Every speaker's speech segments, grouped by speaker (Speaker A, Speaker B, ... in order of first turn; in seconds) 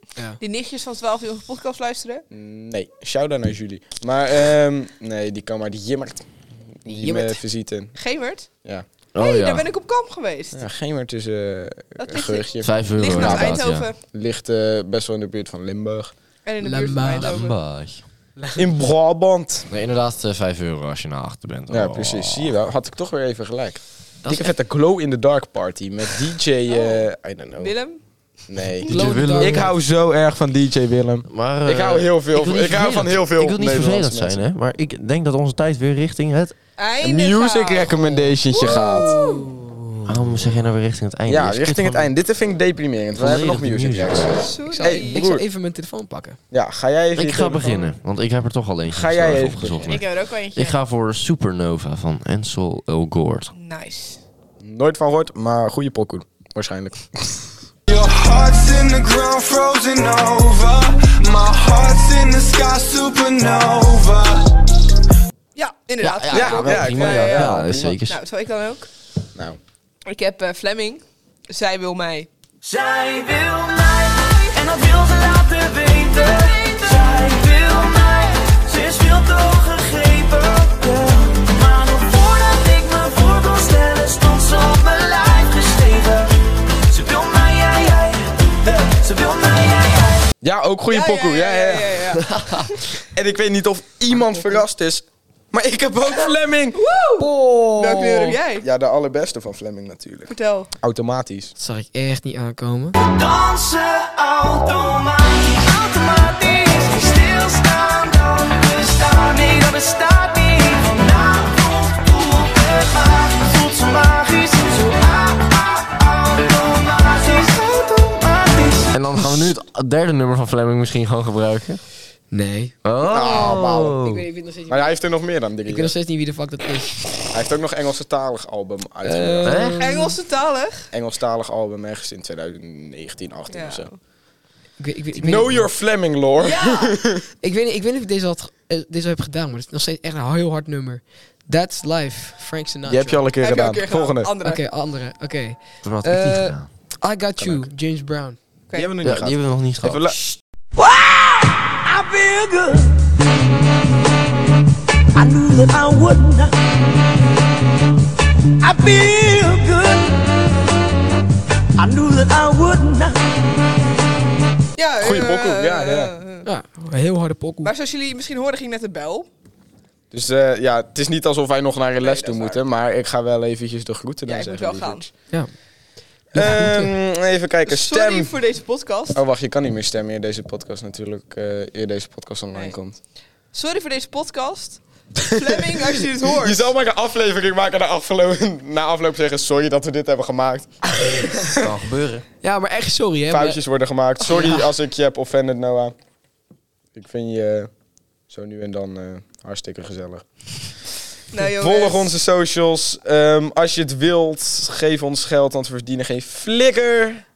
Speaker A: 0.4-2.2, 8.0-8.5, 9.2-10.6, 12.0-14.0, 16.4-17.6, 26.7-27.1, 27.6-28.0, 36.8-39.5, 44.4-45.2, 49.9-50.8, 53.5-54.2, 65.5-68.9, 70.1-72.3, 90.9-92.9, 96.8-98.7, 100.3-100.7, 129.8-130.9, 133.5-134.0, 136.4-137.0, 143.4-144.6, 164.8-166.5, 167.6-169.3, 172.0-172.6, 174.2-175.1, 177.7-179.2, 182.5-182.8, 183.5-186.7, 201.3-202.1
Speaker B: 2.3-6.2, 6.8-8.0, 10.5-16.1, 18.6-19.7, 21.7-27.7, 28.5-34.4, 37.0-39.1, 41.3-45.4, 46.5-47.9, 48.9-50.0, 54.6-57.5, 66.3-68.0, 90.4-92.0, 93.0-96.8, 98.6-101.5, 123.1-124.0, 124.7-125.9, 127.3-129.6, 130.9-133.9, 135.2-137.3, 142.9-144.3, 147.4-147.7, 148.8-150.2, 165.0-166.1, 170.1-175.1, 176.3-178.3, 179.2-183.0, 186.4-190.8, 191.3-191.7, 193.3-195.9, 197.0-197.7, 198.3-200.3, 201.6-207.2
Speaker C: 6.9-7.4, 16.6-17.3, 18.4-18.6, 24.2-24.5, 28.9-29.7, 38.5-40.0, 44.7-46.4, 97.2-98.4, 101.6-103.0, 122.3-122.7, 123.5-125.0, 125.7-127.1, 129.0-130.2, 134.8-135.7, 137.4-143.2, 144.4-148.4, 166.4-167.7, 176.3-176.9, 192.4-193.6, 194.2-194.6
Speaker D: 9.1-9.7, 12.6-13.9, 17.1-18.0, 19.7-22.5, 28.9-29.7, 31.3-36.5, 40.1-42.1, 43.1-44.4, 47.1-53.5, 66.0-68.2, 118.9-121.8, 122.8-124.2, 129.4-129.9, 145.8-146.7, 149.0-150.4, 191.6-192.2
Speaker E: 57.9-64.5, 72.6-90.3, 103.0-119.5, 150.8-153.0, 155.1-156.6, 158.6-160.3, 161.8-163.2